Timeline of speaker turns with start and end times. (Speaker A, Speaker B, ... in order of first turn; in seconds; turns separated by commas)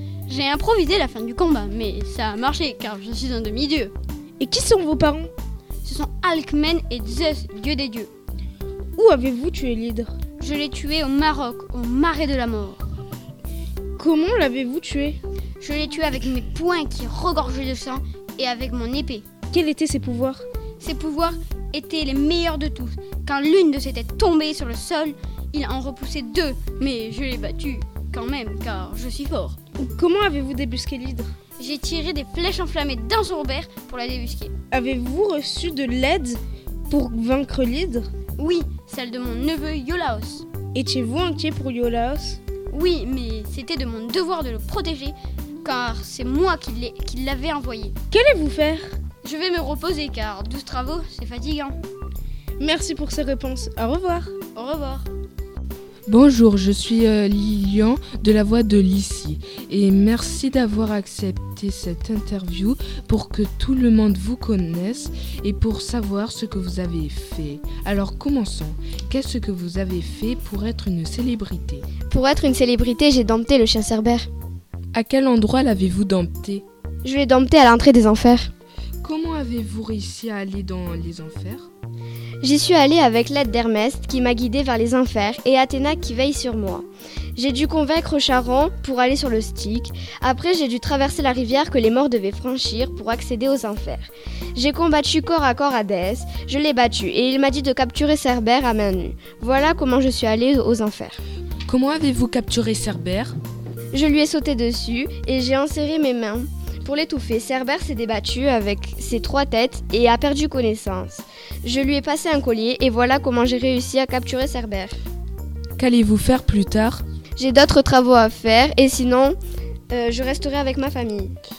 Speaker A: 0.3-3.9, Speaker B: 4.4-5.3, Speaker A: 5.8-8.1, Speaker B: 8.9-10.1, Speaker A: 10.4-12.8, Speaker B: 14.0-15.2, Speaker A: 15.6-19.2, Speaker B: 19.5-20.5, Speaker A: 20.8-29.6, Speaker B: 29.8-31.3, Speaker A: 31.6-34.5, Speaker B: 34.7-38.1, Speaker A: 38.4-40.5, Speaker B: 40.7-42.4, Speaker A: 42.7-47.9, Speaker B: 48.1-49.0, Speaker A: 49.2-51.8, Speaker B: 52.6-54.4, Speaker A: 54.5-55.1, Speaker C: 56.1-71.9, Speaker D: 72.1-74.3, Speaker C: 74.9-76.7, Speaker D: 77.0-78.5, Speaker C: 79.0-81.7, Speaker D: 82.4-101.2, Speaker C: 101.7-103.4, Speaker D: 103.9-115.0, Speaker C: 115.8-117.0, Speaker D: 117.4-119.4, Speaker D: 119.9-121.3